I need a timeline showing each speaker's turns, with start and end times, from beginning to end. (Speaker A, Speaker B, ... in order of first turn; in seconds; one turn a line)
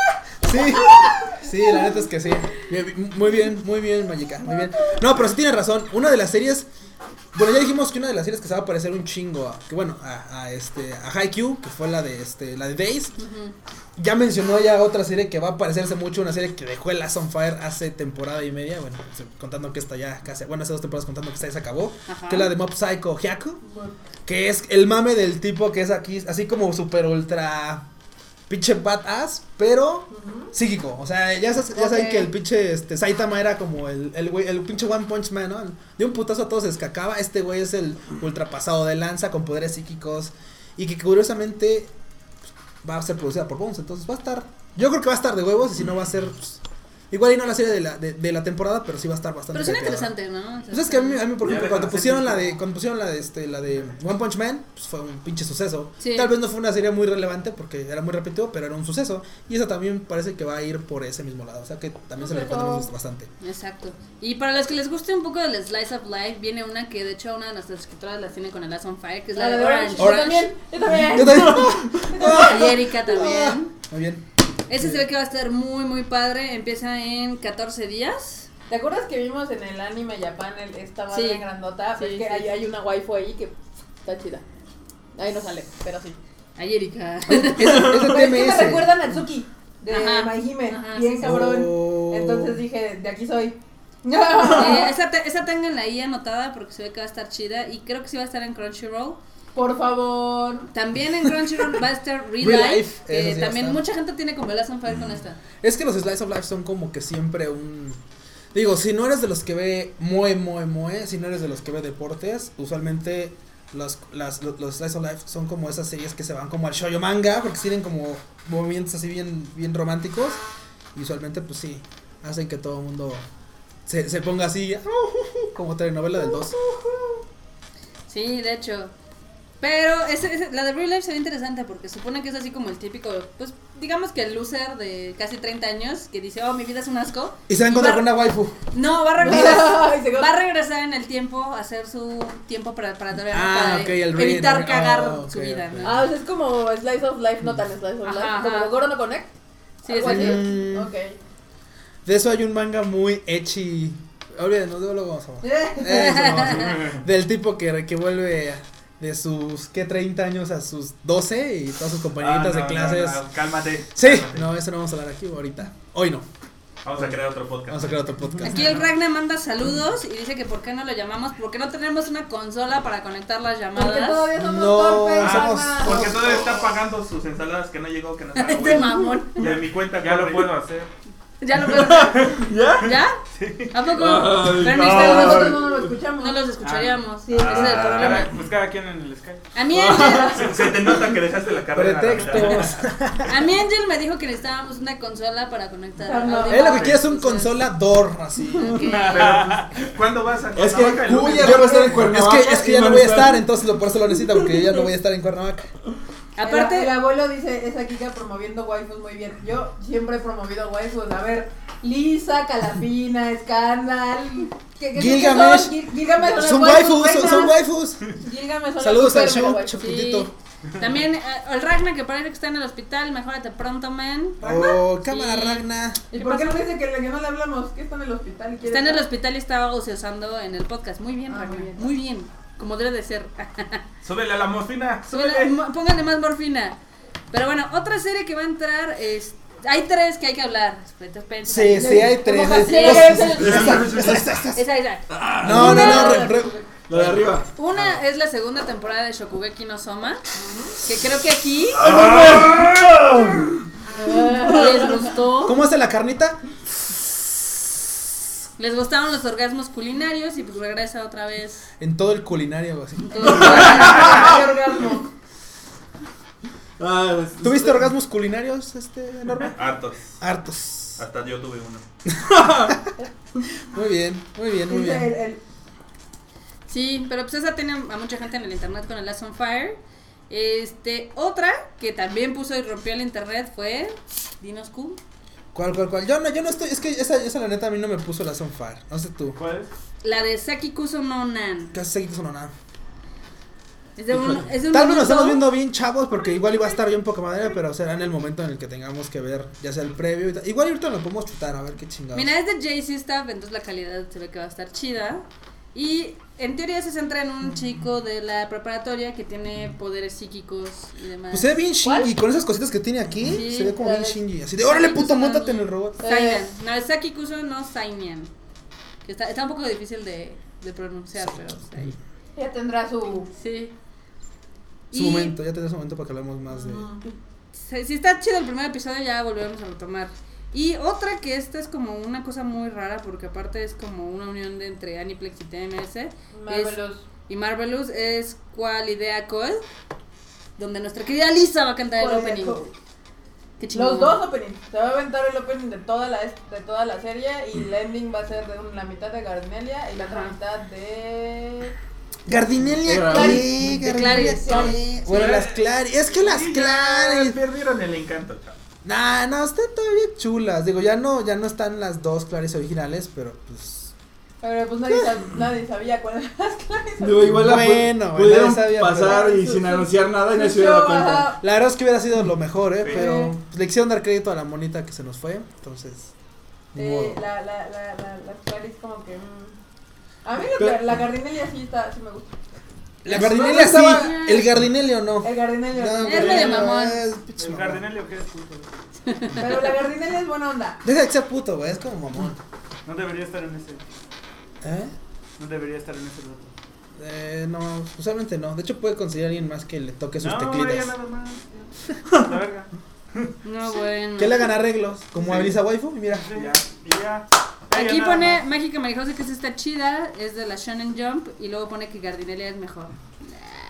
Speaker A: 0.4-6.7
Speaker B: 0.5-0.9
Speaker A: 7.3-13.2
Speaker B: 13.2-13.5
Speaker A: 13.9-23.6
Speaker B: 22.1-22.5
Speaker C: 23.6-23.9
Speaker A: 24.2-27.8
Speaker A: 28.5-41.9
Speaker C: 30.1-30.5
Speaker C: 31.7-32.3
Speaker A: 42.8-50.1
Speaker B: 49.5-51.3
Speaker A: 50.7-63.3
Speaker D: 51.4-52.4
Speaker B: 56.0-56.3
Speaker C: 62.2-62.9
Speaker B: 63.4-70.5
Speaker C: 69.3-72.7
Speaker A: 70.0-74.2
Speaker B: 72.2-73.7
Speaker B: 74.7-78.5
Speaker A: 74.8-75.0
Speaker C: 78.7-84.4
Speaker B: 81.1-82.5
Speaker C: 85.2-86.2
Speaker B: 86.6-87.9
Speaker A: 87.3-89.0
Speaker C: 87.7-94.9
Speaker B: 89.9-91.3
Speaker A: 91.2-92.6
Speaker B: 94.5-99.2
Speaker C: 99.5-100.7
Speaker B: 100.7-105.4
Speaker A: 102.4-103.8
Speaker A: 105.6-108.0
Speaker A: 108.5-120.4
Speaker A: 120.9-123.2
Speaker A: 123.8-126.5
Speaker B: 128.1-128.9
Speaker B: 129.6-138.2
Speaker A: 137.5-138.6
Speaker B: 138.7-145.9
Speaker C: 139.2-140.3
Speaker A: 139.2-139.6
Speaker A: 143.3-146.1
Speaker C: 145.8-151.2
Speaker B: 148.0-148.8
Speaker B: 149.8-150.4
Speaker A: 149.9-150.9
Speaker A: 152.0-163.2
Speaker C: 155.4-156.3
Speaker B: 155.9-156.8
Speaker E: 162.2-163.3
Speaker D: 162.7-164.2
Speaker A: 163.9-166.2
Speaker E: 164.0-164.3
Speaker D: 166.8-168.1
Speaker A: 167.7-168.8
Speaker B: 168.4-174.3
Speaker C: 173.8-176.3
Speaker A: 174.3-176.2
Speaker D: 175.2-180.6
Speaker B: 178.3-179.4
Speaker E: 179.4-180.9
Speaker B: 181.4-183.2
Speaker F: 181.7-183.0
Speaker E: 183.4-183.7
Speaker B: 183.7-185.6
Speaker F: 183.9-185.8
Speaker C: 184.7-186.4
Speaker B: 186.2-188.3
Speaker E: 186.6-187.0
Speaker C: 187.2-188.2
Speaker D: 187.3-188.4
Speaker E: 187.7-189.5
Speaker B: 189.5-190.5
Speaker F: 189.7-190.6
Speaker C: 190.0-190.7
Speaker D: 190.3-192.7
Speaker A: 191.7-193.4
Speaker B: 193.2-197.5
Speaker C: 196.0-196.9
Speaker A: 196.5-198.8
Speaker B: 198.6-199.4
Speaker F: 198.6-199.6
Speaker D: 198.9-201.6
Speaker E: 199.0-201.3
Speaker F: 200.5-203.4
Speaker A: 201.3-205.7
Speaker B: 206.3-207.0
Speaker C: 206.4-217.6
Speaker A: 214.9-218.1
Speaker C: 218.2-219.8
Speaker A: 218.8-220.3
Speaker B: 219.8-226.7
Speaker A: 224.4-226.0
Speaker C: 224.5-224.7
Speaker C: 226.1-229.0
Speaker B: 228.7-233.8
Speaker C: 231.3-231.9
Speaker E: 234.0-235.5
Speaker B: 235.1-236.8
Speaker B: 237.3-246.3
Speaker A: 241.4-244.6
Speaker C: 241.8-243.7
Speaker F: 243.4-244.2
Speaker F: 245.1-246.0
Speaker A: 245.4-248.0
Speaker C: 245.5-246.7
Speaker F: 246.9-247.5
Speaker B: 247.6-250.2
Speaker C: 250.4-250.7
Speaker B: 250.8-252.1
Speaker F: 251.8-253.5
Speaker C: 253.9-255.1
Speaker B: 254.4-255.6
Speaker A: 255.4-256.4
Speaker B: 258.6-261.6
Speaker A: 261.8-263.9
Speaker B: 263.1-264.2
Speaker C: 263.2-265.1
Speaker F: 263.3-264.2
Speaker F: 266.8-267.9
Speaker A: 267.4-269.6
Speaker D: 269.5-270.1
Speaker A: 270.2-271.0
Speaker D: 271.0-271.8
Speaker A: 272.1-272.9
Speaker F: 272.3-272.8
Speaker A: 273.6-275.1
Speaker C: 274.7-275.4
Speaker B: 276.7-285.0
Speaker A: 285.5-289.4
Speaker E: 289.3-289.7
Speaker B: 290.0-291.8
Speaker A: 291.7-292.5
Speaker B: 294.0-295.5
Speaker F: 294.1-294.4
Speaker A: 294.6-302.3
Speaker B: 302.1-311.5
Speaker A: 311.3-316.0
Speaker C: 311.8-312.1
Speaker B: 313.2-313.8
Speaker C: 313.8-314.2
Speaker B: 314.6-318.3
Speaker C: 316.0-316.4
Speaker B: 319.0-321.9
Speaker C: 322.4-323.3
Speaker B: 323.3-323.7
Speaker B: 324.9-325.4
Speaker A: 324.9-326.9
Speaker C: 326.5-327.0
Speaker B: 327.5-339.6
Speaker C: 336.3-337.0
Speaker B: 340.6-342.7
Speaker C: 341.9-342.7
Speaker B: 343.6-344.2
Speaker C: 343.7-351.7
Speaker B: 350.0-350.3
Speaker A: 352.3-357.4
Speaker F: 352.8-353.4
Speaker C: 353.1-353.4
Speaker B: 353.1-354.7
Speaker C: 354.1-354.8
Speaker D: 355.1-355.4
Speaker E: 355.1-355.4
Speaker D: 356.2-358.6
Speaker A: 358.8-363.9
Speaker C: 364.4-367.4
Speaker F: 367.0-371.4
Speaker A: 367.3-369.3
Speaker C: 369.0-371.4
Speaker A: 371.4-376.1
Speaker C: 372.9-373.3
Speaker A: 376.7-377.2
Speaker C: 376.8-379.6
Speaker C: 380.2-382.3
Speaker F: 380.6-380.9
Speaker A: 383.0-387.8
Speaker F: 383.1-384.2
Speaker C: 383.8-384.4
Speaker C: 385.2-386.7
Speaker B: 386.0-387.0
Speaker E: 387.4-388.7
Speaker B: 389.1-389.6
Speaker C: 389.3-390.8
Speaker A: 390.8-392.4
Speaker E: 392.8-393.8
Speaker A: 394.6-394.9
Speaker E: 395.4-396.5
Speaker A: 397.0-400.9
Speaker E: 400.2-402.7
Speaker B: 403.4-404.5
Speaker A: 404.2-406.4
Speaker E: 406.1-408.4
Speaker B: 407.7-412.9